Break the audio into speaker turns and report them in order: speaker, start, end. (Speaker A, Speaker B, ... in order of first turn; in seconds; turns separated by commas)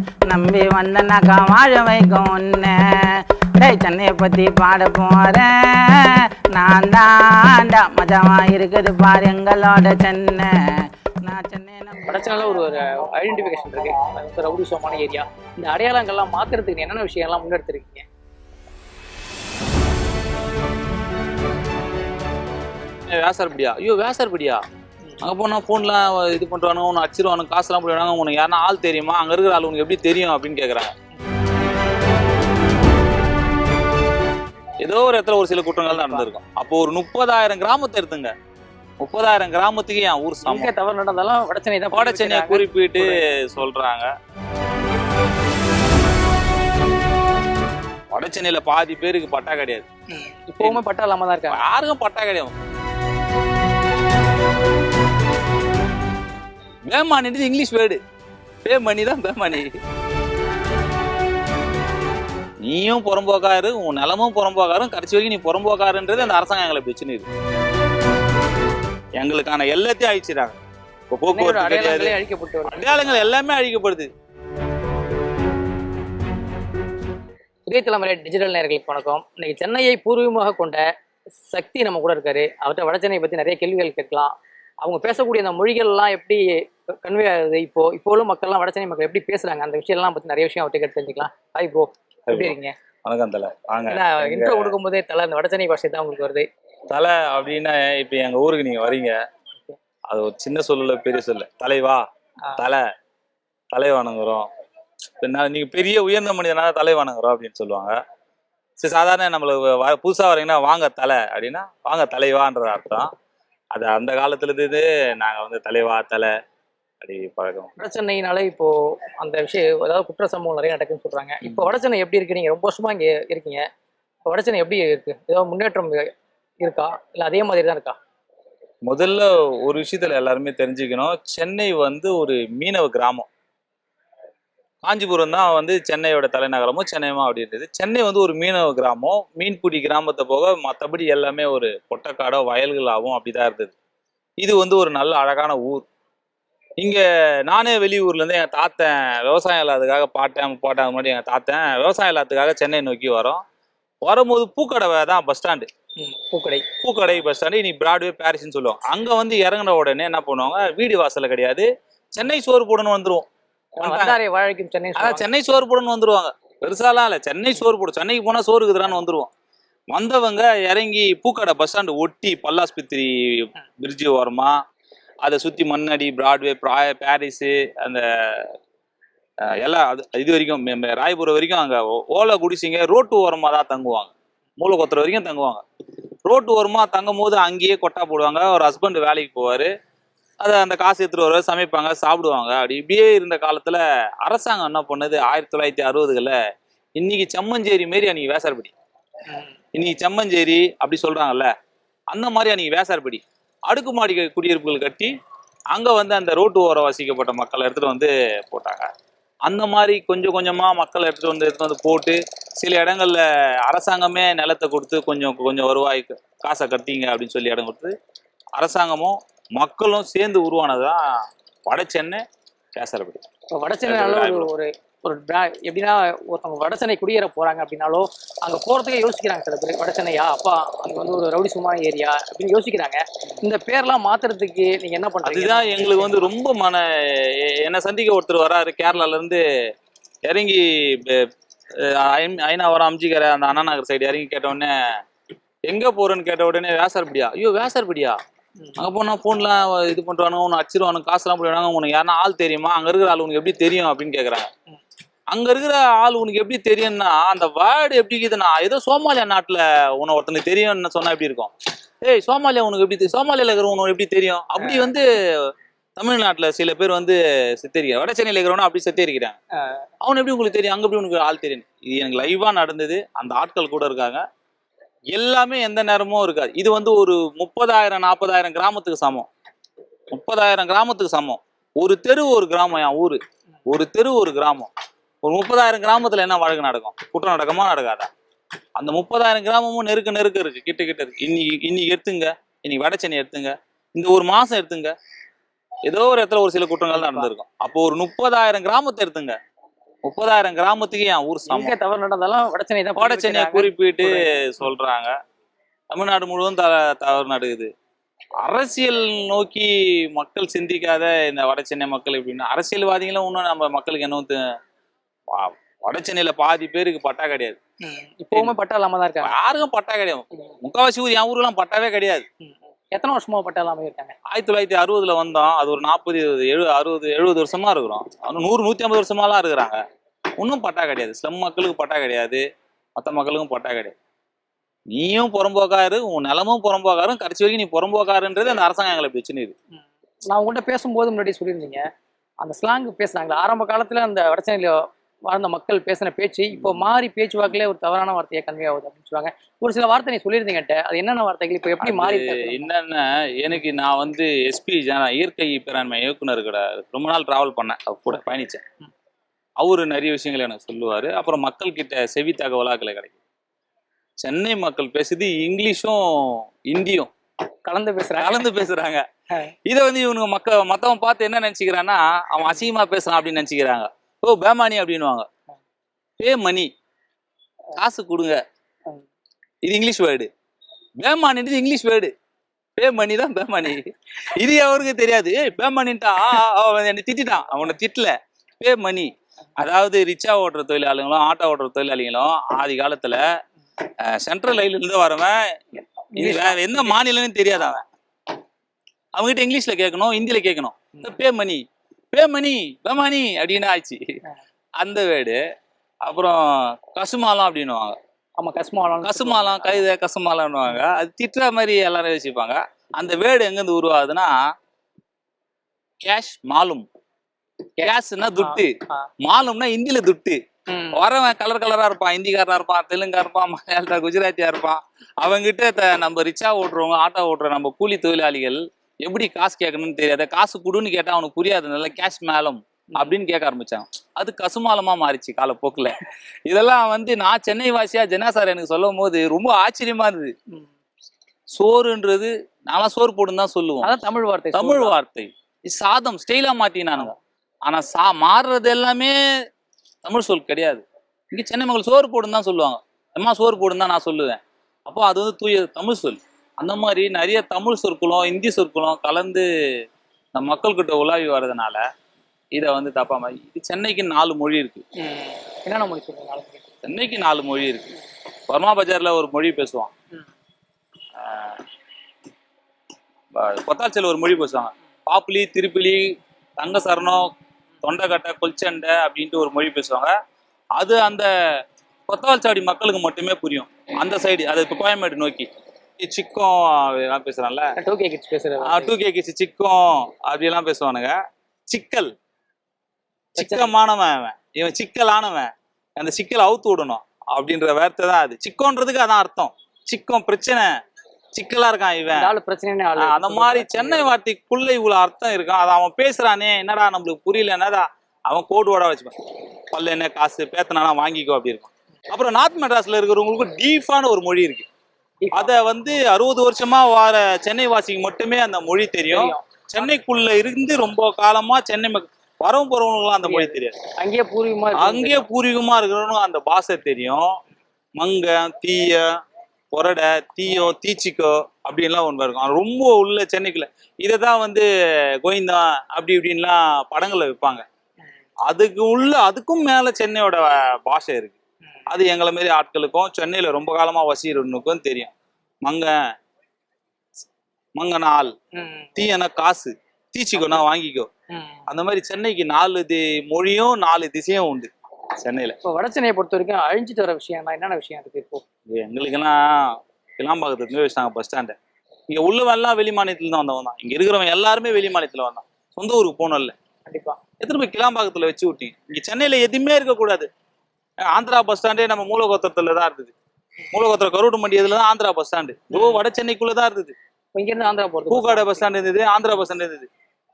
Speaker A: 0.2-10.6, Speaker A: 11.2-12.9, Speaker B: 12.1-18.0, Speaker C: 23.1-24.6, Speaker C: 25.2-30.9, Speaker C: 34.8-38.3, Speaker B: 35.9-36.3, Speaker C: 39.0-40.7, Speaker B: 40.4-43.2, Speaker C: 41.9-44.1, Speaker C: 48.1-49.9, Speaker B: 50.1-51.6, Speaker C: 51.5-52.5, Speaker C: 56.9-58.0, Speaker C: 58.6-59.7, Speaker C: 62.6-67.3, Speaker C: 69.2-70.6, Speaker C: 71.1-72.2, Speaker B: 71.3-73.3, Speaker C: 72.7-74.1, Speaker B: 77.7-80.8, Speaker B: 81.5-92.7, Speaker C: 92.3-94.8, Speaker B: 93.9-96.5, Speaker C: 96.9-99.1, Speaker C: 100.1-102.0, Speaker C: 102.6-102.8, Speaker C: 103.7-104.5, Speaker C: 105.2-108.0, Speaker C: 108.8-113.1, Speaker C: 113.7-116.3, Speaker C: 117.0-117.7, Speaker B: 117.8-123.6, Speaker B: 124.3-126.1, Speaker B: 126.6-128.0, Speaker C: 128.8-133.3, Speaker C: 134.8-143.7, Speaker C: 144.4-145.8, Speaker C: 146.8-153.4, Speaker C: 154.0-155.7, Speaker B: 156.0-156.7, Speaker C: 156.8-163.2, Speaker B: 163.8-165.3, Speaker C: 163.8-164.2, Speaker C: 164.9-169.3, Speaker C: 169.9-174.5, Speaker C: 175.2-178.5, Speaker C: 179.4-185.6, Speaker C: 186.2-189.7, Speaker C: 190.4-196.3, Speaker C: 197.0-198.7, Speaker C: 199.7-201.5, Speaker C: 202.1-205.1, Speaker C: 205.7-208.9, Speaker C: 209.4-217.9, Speaker C: 218.6-221.0, Speaker C: 221.7-222.2, Speaker C: 222.8-223.2, Speaker B: 223.5-236.3, Speaker C: 223.8-224.5, Speaker C: 235.2-239.4, Speaker B: 238.9-239.2, Speaker C: 240.3-241.2, Speaker C: 241.8-244.7, Speaker C: 245.7-248.2, Speaker C: 248.8-254.5, Speaker C: 255.3-261.5, Speaker C: 262.0-269.4, Speaker B: 264.6-264.9, Speaker B: 269.6-269.8, Speaker C: 270.0-274.2, Speaker C: 275.1-279.3, Speaker C: 280.1-284.7, Speaker C: 285.2-288.1, Speaker C: 288.8-294.9, Speaker C: 295.9-299.3, Speaker B: 296.9-297.3, Speaker C: 300.0-301.8, Speaker B: 301.5-304.7, Speaker C: 302.9-305.1, Speaker C: 305.9-307.7, Speaker C: 308.4-314.4, Speaker C: 315.3-317.6, Speaker B: 317.8-319.3, Speaker C: 319.2-322.2, Speaker B: 322.4-324.1, Speaker C: 324.3-329.8, Speaker C: 330.4-332.4, Speaker C: 333.0-333.9, Speaker C: 334.9-339.5, Speaker B: 340.3-341.8, Speaker B: 342.4-352.7, Speaker C: 351.8-358.6, Speaker C: 359.6-363.2, Speaker C: 364.2-367.1, Speaker B: 367.6-368.5, Speaker C: 368.2-369.0, Speaker C: 369.7-375.2, Speaker C: 376.2-376.7, Speaker C: 377.8-378.4, Speaker C: 379.6-380.3, Speaker C: 381.0-382.1, Speaker C: 382.8-383.8, Speaker C: 384.4-393.2, Speaker C: 394.0-395.4, Speaker B: 396.1-397.0, Speaker C: 396.1-397.8, Speaker C: 399.1-401.6, Speaker C: 402.1-404.0, Speaker C: 404.8-405.4, Speaker C: 406.0-408.0, Speaker B: 408.4-409.9, Speaker C: 409.0-414.4, Speaker C: 416.0-416.9, Speaker B: 417.8-419.1, Speaker C: 417.8-418.7, Speaker C: 419.2-420.4, Speaker B: 420.7-421.0, Speaker C: 420.9-435.9, Speaker C: 436.5-440.3, Speaker C: 441.5-443.9, Speaker B: 443.8-444.9, Speaker C: 444.5-447.1, Speaker C: 447.6-449.1, Speaker C: 450.0-459.4, Speaker C: 460.3-461.8, Speaker C: 462.5-464.8, Speaker B: 465.0-466.6, Speaker C: 466.8-467.9, Speaker C: 468.5-469.9, Speaker C: 471.2-471.6, Speaker C: 473.4-477.3, Speaker C: 477.8-480.1, Speaker C: 480.8-481.3, Speaker C: 482.1-485.5, Speaker C: 486.0-487.7, Speaker B: 487.8-488.9, Speaker C: 488.6-491.1, Speaker C: 491.7-492.1, Speaker B: 493.4-493.7, Speaker C: 493.4-500.7, Speaker C: 501.3-502.3, Speaker B: 502.1-504.1, Speaker C: 503.0-509.1, Speaker C: 509.7-514.7, Speaker B: 515.2-515.5, Speaker C: 515.3-523.8, Speaker B: 519.1-519.9, Speaker B: 523.2-525.3, Speaker C: 524.8-527.3, Speaker C: 528.0-529.0, Speaker C: 529.7-534.7, Speaker C: 535.2-537.6, Speaker C: 538.5-541.4, Speaker C: 541.9-545.1, Speaker C: 545.6-545.9, Speaker C: 547.8-548.3, Speaker B: 548.5-549.1, Speaker C: 549.0-551.1, Speaker B: 550.4-550.6, Speaker B: 551.3-551.6, Speaker C: 551.7-555.5, Speaker B: 555.6-558.4, Speaker C: 558.7-561.5, Speaker C: 562.1-566.5, Speaker B: 566.9-567.2, Speaker C: 567.4-570.3, Speaker C: 571.0-573.1, Speaker C: 573.7-576.9, Speaker B: 575.7-576.0, Speaker B: 577.3-578.8, Speaker C: 578.1-579.9